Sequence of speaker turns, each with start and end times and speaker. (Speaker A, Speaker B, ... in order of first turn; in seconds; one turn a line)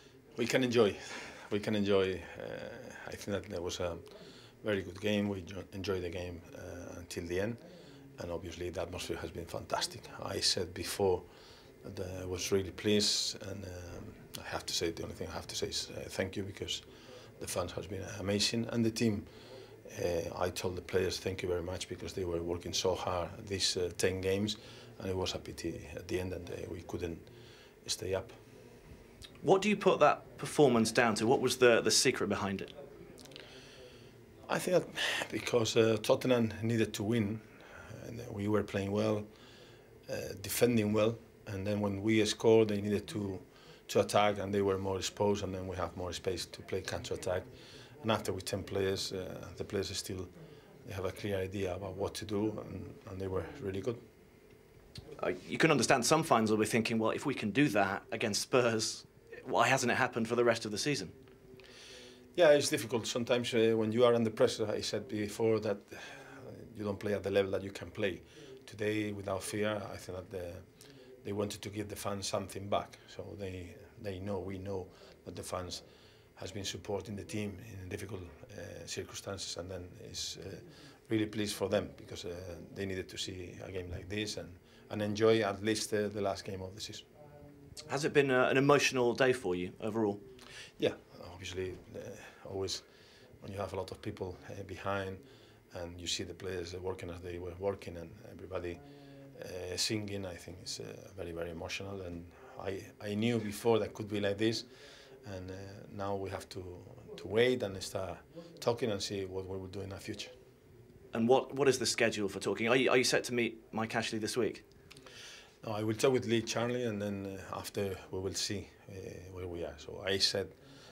Speaker A: 0.4-4.0
Speaker A: 4.6-7.6
Speaker A: 8.2-11.2
Speaker A: 11.8-16.9
Speaker A: 17.4-19.3
Speaker A: 19.9-27.3
Speaker A: 27.8-28.4
Speaker B: 29.4-32.7
Speaker A: 34.5-39.3
Speaker A: 40.1-47.5
Speaker A: 48.0-50.3
Speaker A: 50.8-54.0
Speaker B: 55.2-61.1
Speaker A: 62.4-70.7
Speaker A: 71.2-75.8
Speaker A: 76.4-87.0
Speaker B: 87.9-90.2
Speaker A: 90.8-92.8
Speaker A: 93.4-98.8
Speaker A: 99.3-104.7
Speaker A: 105.2-110.3
Speaker B: 111.1-114.7
Speaker A: 115.6-120.5